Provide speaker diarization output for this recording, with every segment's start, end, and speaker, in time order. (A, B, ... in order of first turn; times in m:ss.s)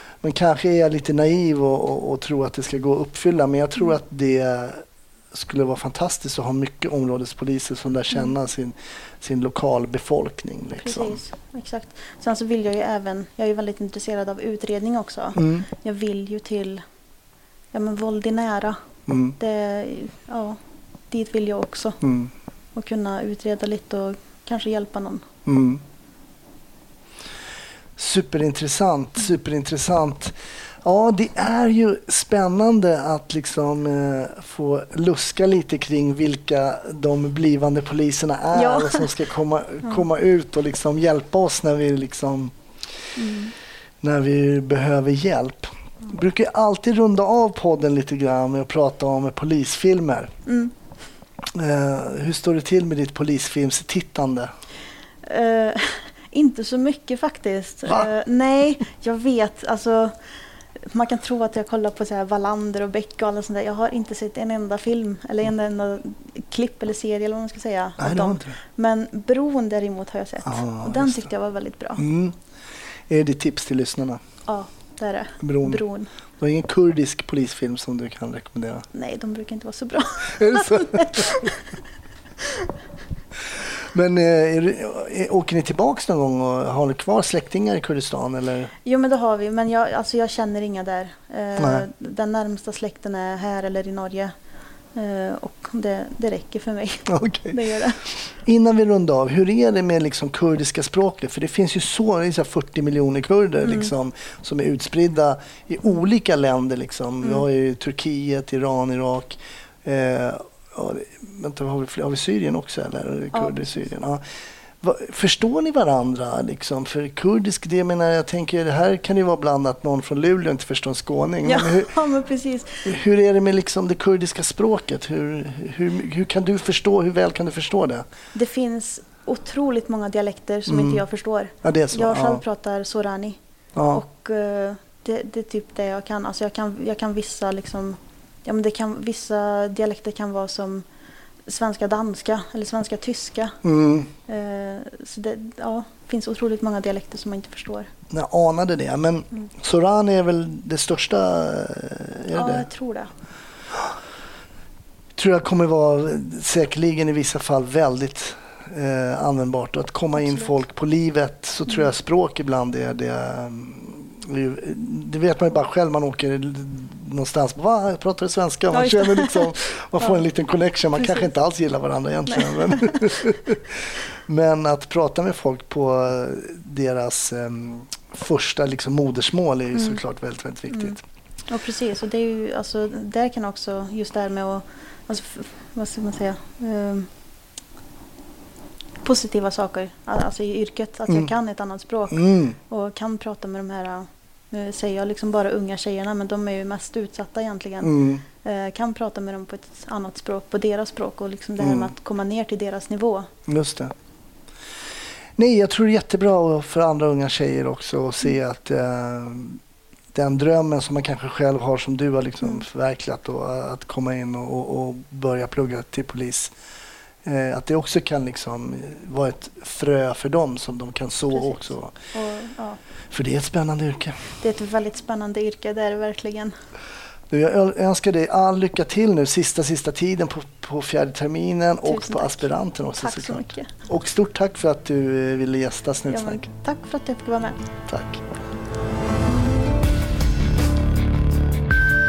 0:00.2-0:11.2 A
0:10.8-0:16.8 B
0:15.4-0:15.7 A
0:17.7-0:18.8 B
0:19.1-0:19.4 A
0:19.4-0:20.6 B
0:21.1-0:22.0 B
0:22.0-0:22.3 A
0:22.8-0:25.3 B
0:25.5-0:25.8 A
0:28.0-0:42.5 A
0:38.5-0:39.1 B
0:43.2-0:43.5 B
0:44.0-0:50.3 A
0:50.5-0:50.7 B
0:51.5-0:54.5 A
0:55.2-1:00.2 B
1:00.8-1:12.0 B
1:08.0-1:08.6 A
1:10.4-1:11.3 A
1:12.0-1:12.4 A
1:13.1-1:14.2 A
1:14.5-1:16.1 B
1:15.4-1:15.8 A
1:16.4-1:18.9 A
1:18.9-1:21.7 B
1:20.3-1:21.5 A
1:22.4-1:22.7 B
1:23.8-1:28.7 A
1:28.8-1:34.3 B
1:31.6-1:31.9 A
1:35.0-1:38.0 B
1:37.1-1:37.6 A
1:38.1-1:54.2 A
1:43.6-1:43.9 B
1:54.8-2:02.0 A
2:01.4-2:02.9 B
2:02.8-2:08.0 A
2:08.4-2:13.4 B
2:10.7-2:11.0 A
2:11.6-2:12.4 A
2:13.8-2:14.0 A
2:13.9-2:20.8 B
2:21.5-2:23.6 B
2:23.6-2:24.1 A
2:24.3-2:27.9 B
2:28.1-2:32.7 A
2:32.3-2:33.1 B
2:35.2-3:01.0 A
2:40.2-2:40.6 B
2:48.7-2:50.2 B
2:51.0-2:51.3 B
2:52.3-2:53.2 B
2:59.8-3:00.0 B
3:00.7-3:01.0 B
3:01.5-3:07.1 B
3:09.0-3:23.3 B
3:12.1-3:12.6 A
3:17.8-3:18.2 A
3:21.6-3:21.9 A
3:23.5-3:23.9 A
3:25.4-3:29.6 A
3:30.1-3:36.5 A
3:37.2-3:42.0 A
3:41.3-3:42.8 B
3:43.1-3:44.2 A
3:44.4-3:46.5 B
3:47.3-3:56.5 A
3:51.8-3:52.5 B
3:53.0-3:53.7 B
3:56.1-3:57.6 B
3:57.9-3:58.2 A